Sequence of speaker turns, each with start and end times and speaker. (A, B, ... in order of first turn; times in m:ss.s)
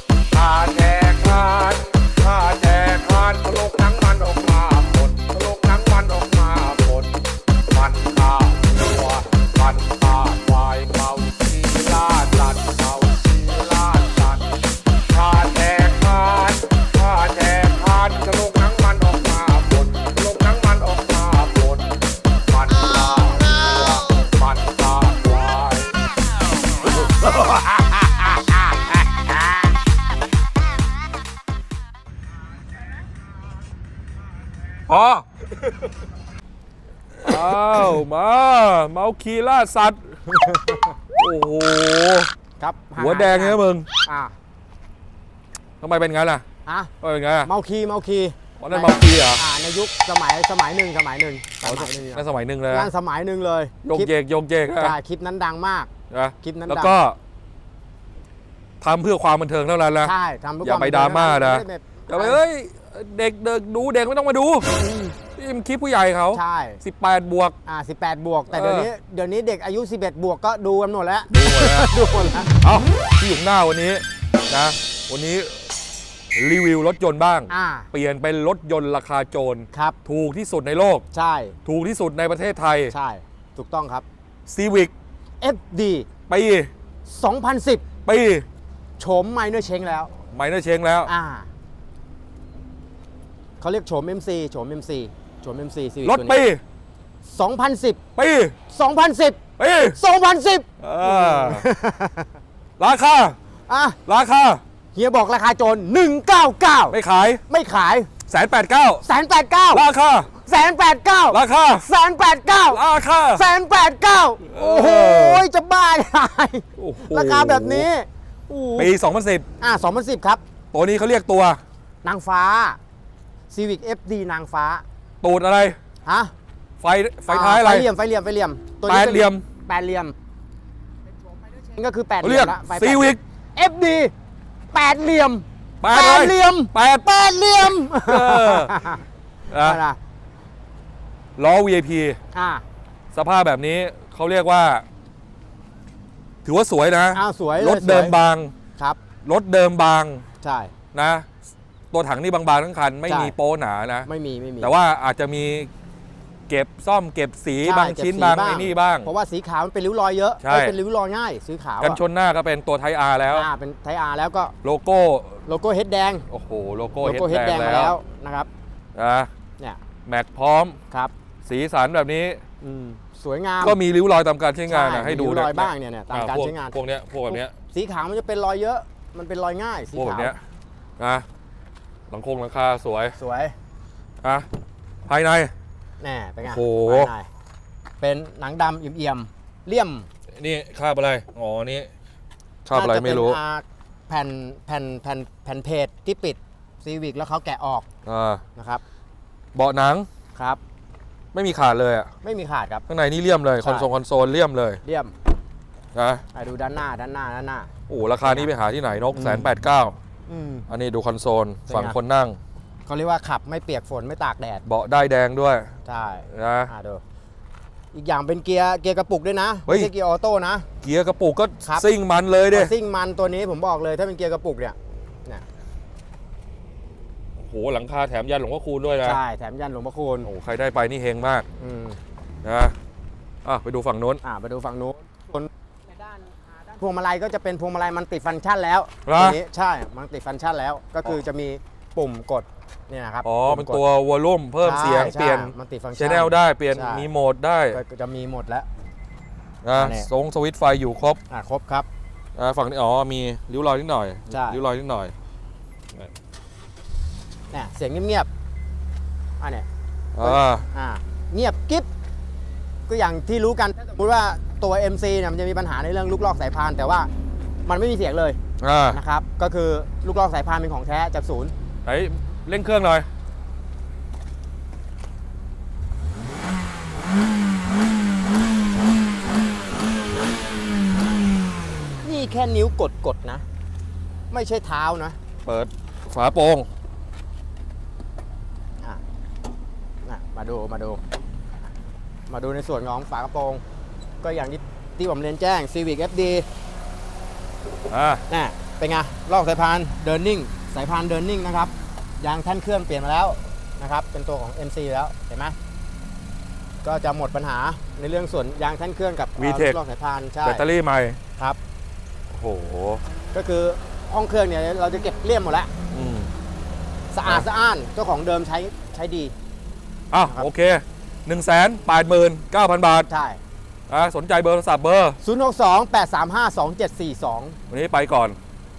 0:00.3-0:07.1 A
0:07.7-0:14.4 A
0:15.1-0:21.9 A
0:22.5-0:26.0 A
0:34.9-0:35.2 B
0:37.2-0:40.0 B
0:40.3-0:41.0 C
0:41.2-0:42.3 B
0:42.6-0:44.4 C
0:43.0-0:43.9 B
0:45.8-0:46.4 B
0:46.7-0:46.9 C
0:47.0-0:47.5 B
0:47.4-0:54.1 C
0:48.6-0:49.4 B
0:51.6-0:52.9 B
0:53.8-0:55.0 B
0:54.8-0:57.0 C
0:56.1-0:57.2 B
0:58.8-1:04.7 B
1:00.0-1:02.4 C
1:04.8-1:05.2 C
1:05.4-1:07.6 B
1:06.3-1:06.8 C
1:07.7-1:12.6 C
1:08.5-1:08.9 B
1:11.3-1:11.9 B
1:12.6-1:15.7 B
1:16.3-1:21.0 B
1:17.5-1:17.9 C
1:19.7-1:20.0 C
1:21.1-1:21.6 C
1:21.7-1:22.9 B
1:22.9-1:24.0 C
1:24.5-1:24.9 B
1:25.4-1:26.1 C
1:26.3-1:26.7 B
1:27.1-1:27.8 C
1:28.0-1:28.5 B
1:29.0-1:30.1 C
1:30.3-1:31.1 B
1:31.1-1:31.5 C
1:33.6-1:36.4 C
1:36.0-1:36.6 B
1:37.2-1:38.0 C
1:38.2-1:38.6 B
1:38.7-1:39.4 C
1:39.6-1:40.0 B
1:39.9-1:42.3 C
1:40.8-1:41.7 B
1:42.8-1:43.4 B
1:43.7-1:44.0 C
1:44.1-1:44.6 B
1:44.9-1:47.0 C
1:46.9-1:47.4 B
1:47.5-1:48.1 C
1:48.3-1:49.0 B
1:49.0-1:49.9 C
1:49.7-1:50.3 B
1:50.4-1:58.9 C
1:51.3-1:51.9 B
1:52.7-1:53.4 B
1:54.4-1:55.4 B
1:56.8-1:57.9 B
1:58.8-1:59.5 B
1:59.6-2:00.4 C
2:00.7-2:01.6 B
2:02.0-2:02.8 C
2:03.5-2:04.8 C
2:05.2-2:05.8 B
2:06.0-2:06.3 C
2:06.8-2:07.9 B
2:07.3-2:10.2 C
2:08.9-2:09.4 B
2:11.5-2:14.1 C
2:12.2-2:13.2 B
2:14.7-2:20.0 C
2:15.8-2:18.8 B
2:19.5-2:19.8 B
2:21.4-2:22.2 B
2:22.3-2:22.6 C
2:23.1-2:24.8 B
2:26.4-2:28.5 B
2:27.1-2:28.2 C
2:29.2-2:30.2 B
2:30.4-2:30.7 C
2:30.9-2:31.3 B
2:31.9-2:34.1 B
2:33.1-2:33.4 C
2:34.1-2:34.7 C
2:34.6-2:35.7 B
2:36.5-2:39.1 B
2:37.6-2:42.0 C
2:40.4-2:40.8 B
2:41.8-2:43.5 B
2:43.3-2:44.5 C
2:44.6-2:45.4 B
2:45.5-2:46.3 C
2:46.3-2:48.0 B
2:47.0-2:48.5 C
2:49.0-2:49.3 B
2:50.1-2:50.8 B
2:51.4-2:52.4 B
2:52.6-2:53.8 C
2:53.6-2:57.5 B
2:54.7-2:56.8 C
2:57.3-3:00.4 C
3:00.0-3:00.4 B
3:01.0-3:01.2 B
3:02.1-3:03.2 B
3:03.2-3:03.5 C
3:04.2-3:04.5 B
3:05.1-3:05.5 B
3:06.0-3:07.3 C
3:06.4-3:07.1 B
3:08.0-3:10.1 C
3:10.4-3:11.9 B
3:12.6-3:13.4 B
3:12.7-3:17.9 C
3:18.1-3:18.4 B
3:18.6-3:18.8 C
3:19.5-3:20.1 B
3:20.4-3:20.6 C
3:21.3-3:22.1 B
3:22.2-3:22.8 C
3:22.9-3:24.8 B
3:23.6-3:23.9 C
3:24.8-3:25.1 C
3:26.0-3:26.2 B
3:26.3-3:27.7 C
3:27.9-3:30.0 B
3:28.2-3:28.5 C
3:29.1-3:29.5 C
3:30.3-3:30.7 C
3:30.7-3:32.4 B
3:31.7-3:32.0 C
3:32.9-3:34.6 C
3:34.7-3:35.7 B
3:35.8-3:37.0 C
3:36.3-3:36.7 B
3:37.9-3:40.7 C
3:40.8-3:42.7 B
3:42.5-3:45.4 C
3:47.4-3:49.2 B
3:49.0-3:50.3 C
3:50.2-3:51.5 B
3:51.6-3:52.0 C
3:52.4-3:52.8 B
3:53.4-3:54.2 B
3:54.2-4:03.8 C
3:59.0-3:59.4 B
4:03.2-4:07.8 B
4:04.6-4:07.1 C
4:07.7-4:08.7 C
4:09.6-4:11.2 B
4:09.8-4:10.1 C
4:11.3-4:11.9 C
4:12.4-4:15.1 B
4:14.3-4:14.6 C
4:17.5-4:18.3 C
4:19.4-4:19.7 C
4:20.1-4:20.7 B
4:20.2-4:21.9 C
4:22.9-4:27.1 C
4:27.6-4:28.4 C
4:28.6-4:29.0 B
4:28.9-4:31.5 C
4:31.8-4:33.1 B
4:42.0-4:43.4 C
4:44.3-4:45.2 C
4:45.4-4:46.7 B
4:50.0-4:51.0 C
4:52.3-4:53.6 C
4:54.2-4:56.5 C
4:57.9-4:58.2 B
4:58.3-5:05.6 C
5:06.8-5:10.6 C
5:09.4-5:09.8 B
5:10.4-5:11.2 B
5:12.3-5:13.0 B
5:13.3-5:15.7 C
5:15.9-5:16.3 B
5:17.1-5:19.3 C
5:20.1-5:23.1 B
5:23.1-5:23.4 C
5:23.9-5:25.2 B
5:25.2-5:27.6 C
5:27.7-5:28.4 B